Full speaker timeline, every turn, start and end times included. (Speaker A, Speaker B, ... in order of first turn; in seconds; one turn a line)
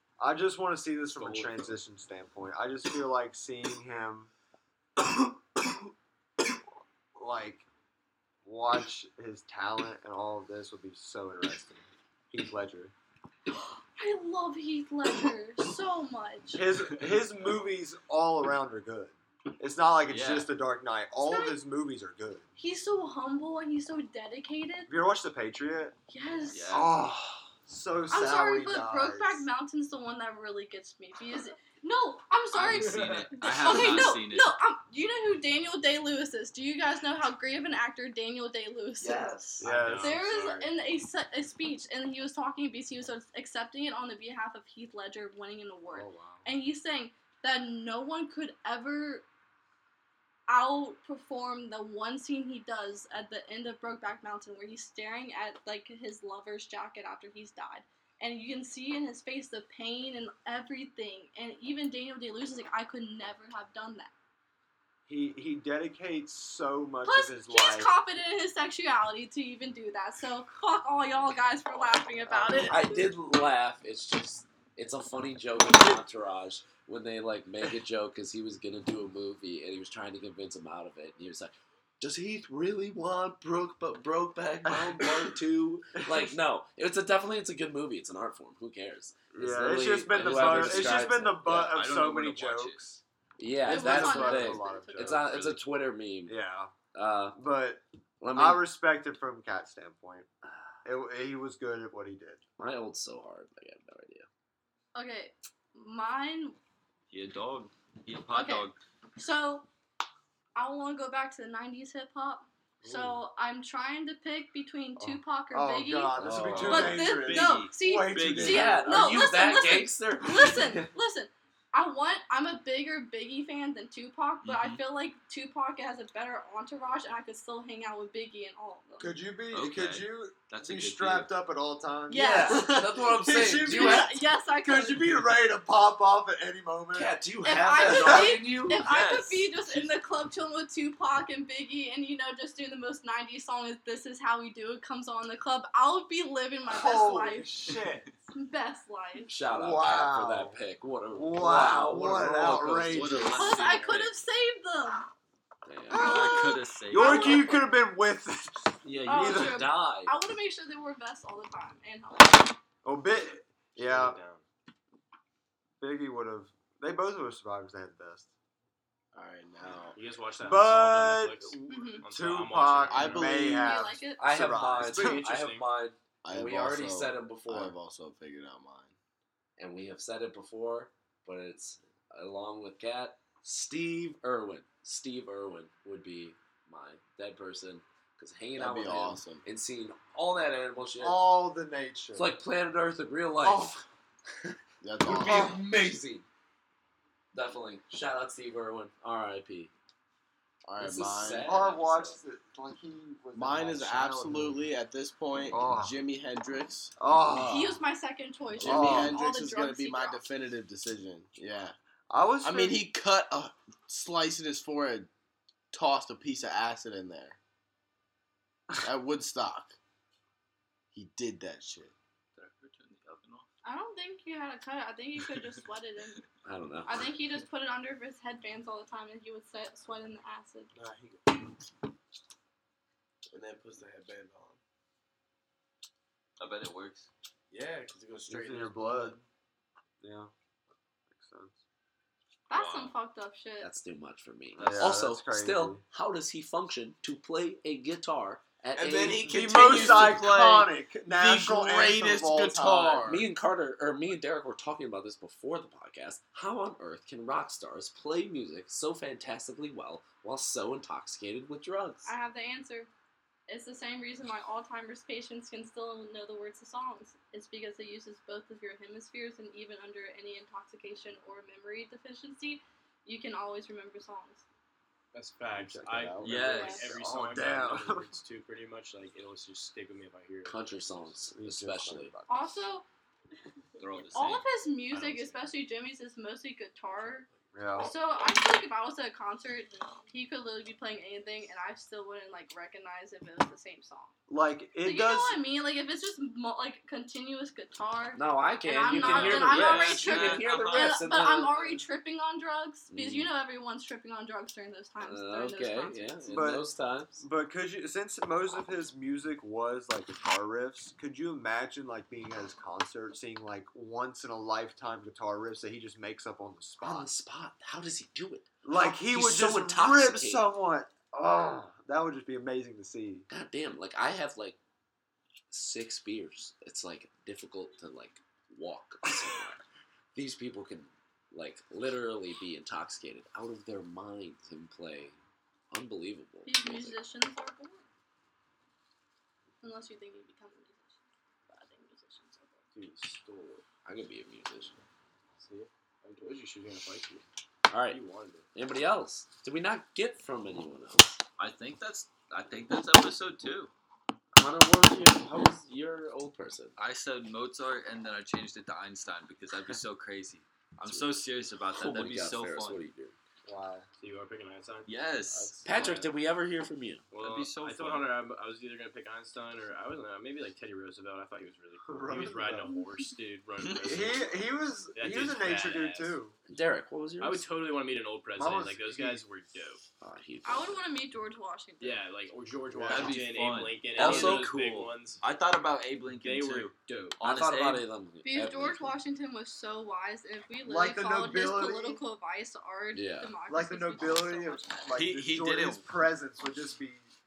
Speaker A: 0.2-4.3
Speaker B: 1.1-1.8
Speaker A: 7.2-7.7
Speaker A: 8.4-12.9
Speaker C: 13.8-16.6
Speaker A: 16.5-22.4
Speaker D: 20.1-20.5
Speaker C: 21.2-21.6
Speaker C: 22.6-24.9
Speaker A: 24.9-26.0
Speaker C: 26.1-26.8
Speaker D: 26.5-27.1
Speaker A: 26.7-29.5
Speaker C: 28.1-39.4
Speaker D: 32.5-34.5
Speaker E: 39.0-39.7
Speaker A: 39.6-40.2
Speaker B: 39.6-40.7
Speaker C: 40.0-49.2
Speaker A: 45.9-46.5
Speaker C: 50.5-64.1
Speaker A: 65.1-67.9
Speaker C: 67.0-73.0
Speaker A: 72.3-72.8
Speaker E: 72.7-91.8
Speaker A: 84.7-85.4
Speaker A: 86.0-86.3
Speaker A: 89.3-93.0
Speaker D: 90.1-92.9
Speaker E: 93.4-96.4
Speaker A: 93.6-95.4
Speaker C: 93.7-95.5
Speaker A: 96.2-96.7
Speaker E: 96.9-97.4
Speaker A: 97.3-97.8
Speaker E: 98.2-98.6
Speaker A: 98.3-100.3
Speaker E: 100.4-100.7
Speaker A: 100.8-102.4
Speaker E: 102.6-104.3
Speaker C: 104.9-106.6
Speaker D: 107.1-108.8
Speaker C: 108.3-109.7
Speaker C: 110.5-129.2
Speaker A: 112.8-113.2
Speaker A: 115.0-119.2
Speaker E: 116.2-117.0
Speaker D: 116.3-119.0
Speaker E: 118.3-120.9
Speaker D: 124.4-124.8
Speaker A: 129.0-137.2
Speaker D: 129.5-131.3
Speaker C: 132.1-132.9
Speaker E: 132.1-134.1
Speaker C: 133.4-135.0
Speaker E: 136.9-138.9
Speaker C: 137.4-147.5
Speaker A: 137.8-138.4
Speaker D: 138.8-139.5
Speaker A: 146.7-148.1
Speaker C: 148.3-149.3
Speaker E: 149.3-153.3
Speaker A: 149.5-150.6
Speaker A: 151.1-153.6
Speaker D: 152.8-154.1
Speaker C: 153.3-155.1
Speaker E: 155.6-156.3
Speaker A: 155.9-159.7
Speaker C: 155.9-157.7
Speaker D: 156.0-157.6
Speaker E: 158.8-160.2
Speaker C: 159.0-162.6
Speaker A: 162.8-164.2
Speaker B: 163.7-164.4
Speaker A: 165.8-168.3
Speaker F: 169.1-170.0
Speaker B: 169.9-173.4
Speaker A: 170.4-175.2
Speaker C: 171.7-172.1
Speaker F: 172.9-173.8
Speaker C: 173.3-174.2
Speaker E: 174.2-177.8
Speaker B: 174.8-175.7
Speaker F: 176.2-178.9
Speaker E: 179.6-191.3
Speaker F: 188.6-189.4
Speaker A: 191.0-192.3
Speaker E: 192.1-193.8
Speaker A: 193.4-193.8
Speaker E: 194.4-196.2
Speaker F: 194.8-195.6
Speaker A: 195.1-195.6
Speaker E: 197.3-199.7
Speaker F: 200.7-201.7
Speaker E: 200.8-202.2
Speaker A: 201.4-204.7
Speaker F: 203.3-207.7
Speaker A: 205.4-206.0
Speaker A: 207.0-207.8
Speaker C: 207.3-210.3
Speaker F: 208.6-211.7
Speaker A: 208.6-209.2
Speaker A: 212.1-212.9
Speaker F: 212.4-215.1
Speaker F: 215.7-217.4
Speaker F: 218.8-219.8
Speaker F: 220.9-221.9
Speaker D: 222.3-223.5
Speaker C: 223.6-226.2
Speaker D: 225.2-225.6
Speaker E: 226.4-227.1
Speaker C: 226.8-230.7
Speaker F: 230.8-231.3
Speaker F: 233.3-234.6
Speaker D: 236.4-237.1
Speaker F: 237.5-239.2
Speaker A: 238.3-239.2
Speaker A: 240.0-240.3
Speaker A: 241.1-241.6
Speaker C: 242.5-243.7
Speaker D: 242.5-242.9
Speaker E: 243.6-250.2
Speaker A: 244.6-245.8
Speaker F: 244.6-245.0
Speaker F: 248.8-253.2
Speaker A: 249.1-253.1
Speaker E: 253.0-262.1
Speaker C: 262.0-262.9
Speaker C: 263.5-274.4
Speaker B: 275.1-281.1
Speaker A: 275.5-278.1
Speaker D: 276.2-276.9
Speaker C: 276.4-276.8
Speaker E: 280.4-282.1
Speaker A: 281.3-282.5
Speaker C: 282.3-282.8
Speaker D: 283.8-284.4
Speaker C: 284.1-294.1
Speaker B: 284.9-285.5
Speaker A: 287.5-287.9
Speaker A: 294.3-295.4
Speaker C: 294.8-306.3
Speaker E: 298.1-301.6
Speaker D: 299.0-301.1
Speaker E: 302.9-303.3
Speaker E: 305.0-307.2
Speaker A: 306.3-317.1
Speaker E: 316.8-320.5
Speaker A: 318.6-323.3
Speaker E: 323.3-324.6
Speaker E: 325.5-335.2
Speaker E: 335.7-337.0
Speaker C: 336.4-337.9
Speaker C: 339.6-342.6
Speaker B: 342.7-343.6
Speaker E: 343.8-344.8
Speaker B: 345.4-347.2
Speaker E: 347.7-348.0
Speaker B: 347.9-348.5
Speaker E: 348.5-351.2
Speaker D: 351.4-353.7
Speaker E: 354.3-356.8
Speaker D: 356.8-362.8
Speaker E: 360.8-361.1
Speaker E: 361.7-363.2
Speaker A: 363.4-363.9
Speaker B: 364.0-366.1
Speaker D: 364.8-365.6
Speaker E: 365.6-367.0
Speaker B: 367.1-376.2
Speaker D: 367.1-368.1
Speaker A: 371.8-372.8
Speaker D: 373.6-374.1
Speaker A: 373.8-376.4
Speaker E: 376.5-377.4
Speaker B: 377.2-379.8
Speaker A: 378.3-379.2
Speaker E: 380.0-380.8
Speaker C: 380.4-382.0
Speaker B: 381.8-385.2
Speaker A: 382.7-383.2
Speaker D: 382.9-387.8
Speaker E: 383.9-384.5
Speaker B: 386.1-387.2
Speaker E: 387.2-389.0
Speaker C: 388.2-394.9
Speaker A: 390.6-392.0
Speaker E: 392.9-393.3
Speaker A: 393.5-397.1
Speaker D: 394.9-395.9